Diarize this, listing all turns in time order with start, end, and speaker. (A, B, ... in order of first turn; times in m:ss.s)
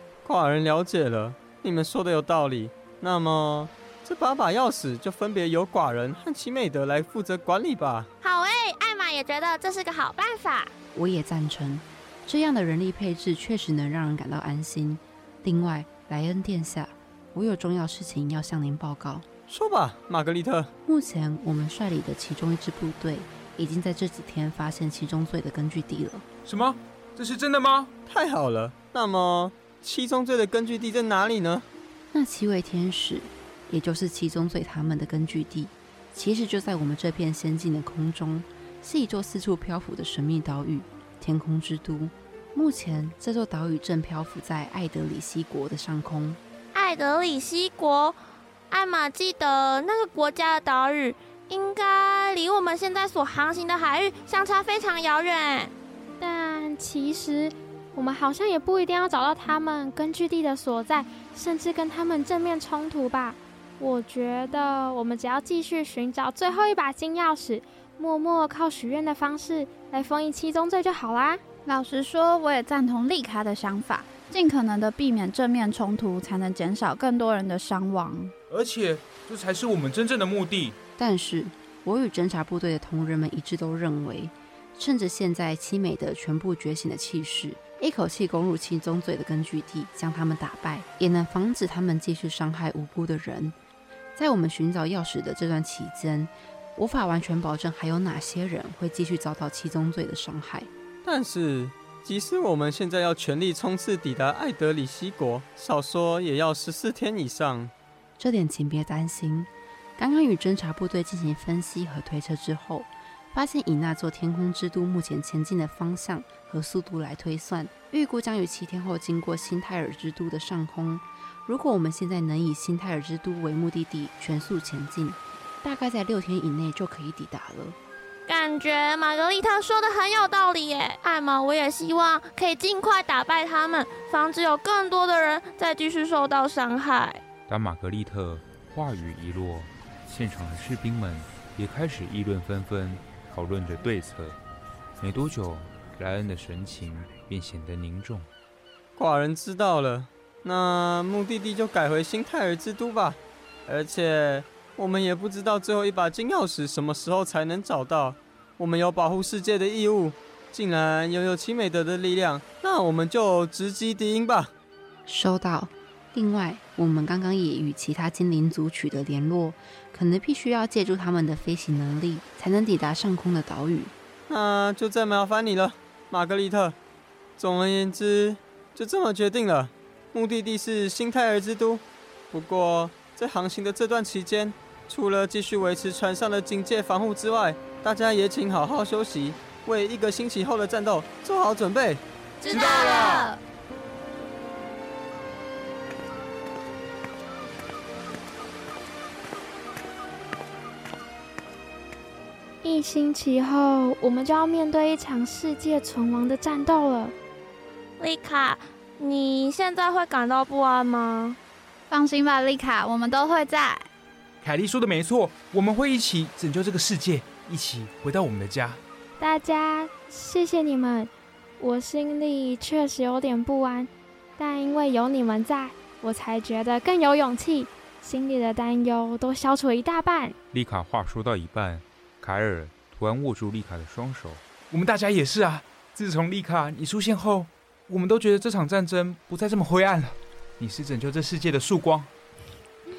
0:00.2-0:08.1 A
0:08.2-0:10.7 B
0:10.9-0:19.2 C
0:19.5-0:20.7 A
0:20.8-0:26.2 C
0:26.4-0:27.9 D
0:28.1-0:31.7 A
0:32.1-0:46.4 C
0:46.7-0:48.2 B
0:48.7-0:55.7 B
0:56.2-1:11.4 E
1:11.6-1:18.3 F
1:18.5-1:20.8 D
1:21.0-1:33.6 C
1:34.1-1:40.7 C
1:41.0-1:47.7 A
1:48.2-2:07.8 C
2:08.3-2:17.2 B
2:17.5-2:24.4 G
2:25.0-2:28.3 G
2:29.0-2:44.5 A
2:45.0-2:53.9 C
2:54.3-2:56.8 A
2:57.4-3:12.0 A
3:12.4-3:13.4 B
3:12.5-3:13.3 D
3:22.6-3:27.1 E
3:28.0-3:31.4 B
3:31.9-3:33.9 F
3:34.4-3:38.8 D
3:39.2-3:50.4 E
3:50.5-3:54.4 G
3:54.7-4:02.1 D